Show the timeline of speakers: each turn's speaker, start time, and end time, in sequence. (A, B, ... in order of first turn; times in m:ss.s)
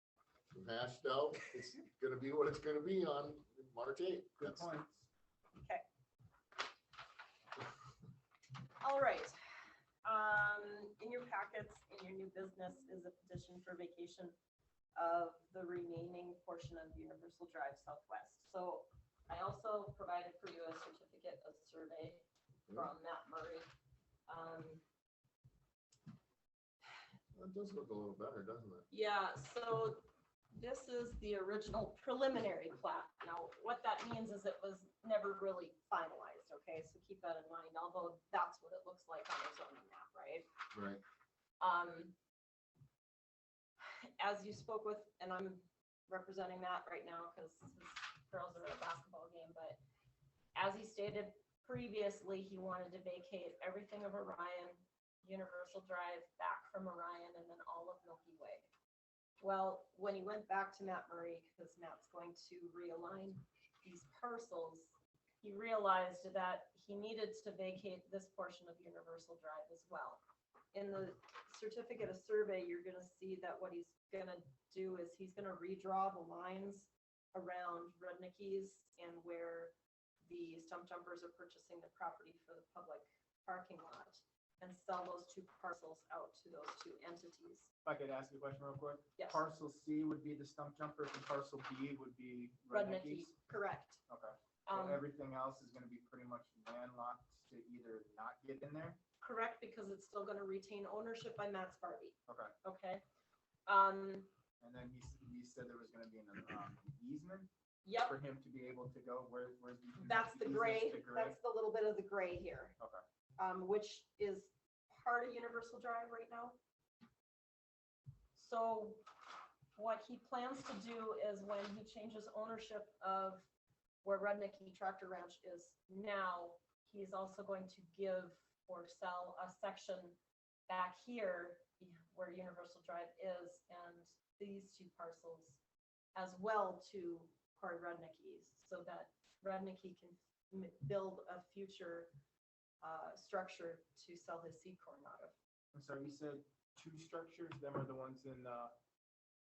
0:00.5-0:04.8 A
0:04.4-0:05.1 B
0:05.6-0:05.8 C
0:08.8-0:09.4 C
0:10.0-0:14.3 C
0:15.0-0:23.6 C
0:24.3-0:24.8 C
0:27.3-0:28.9 A
0:28.9-0:40.5 C
0:40.7-0:41.0 A
0:41.6-0:42.1 C
0:43.8-0:49.8 C
0:50.5-0:58.7 C
0:59.4-1:10.2 C
1:10.7-1:19.7 C
1:20.2-1:27.7 C
1:27.8-1:33.3 B
1:29.2-1:29.4 C
1:32.7-1:34.0 C
1:34.1-1:39.0 B
1:34.6-1:35.0 C
1:39.2-1:43.0 C
1:42.3-1:42.5 B
1:43.6-1:44.3 C
1:44.6-1:51.4 B
1:47.8-1:48.2 C
1:50.0-1:52.7 C
1:53.4-1:56.6 C
1:58.3-1:59.0 C
1:59.7-2:03.5 C
2:04.0-2:10.2 C
2:10.7-2:15.6 C
2:16.1-2:22.1 C
2:22.8-2:25.3 C
2:25.7-2:28.7 B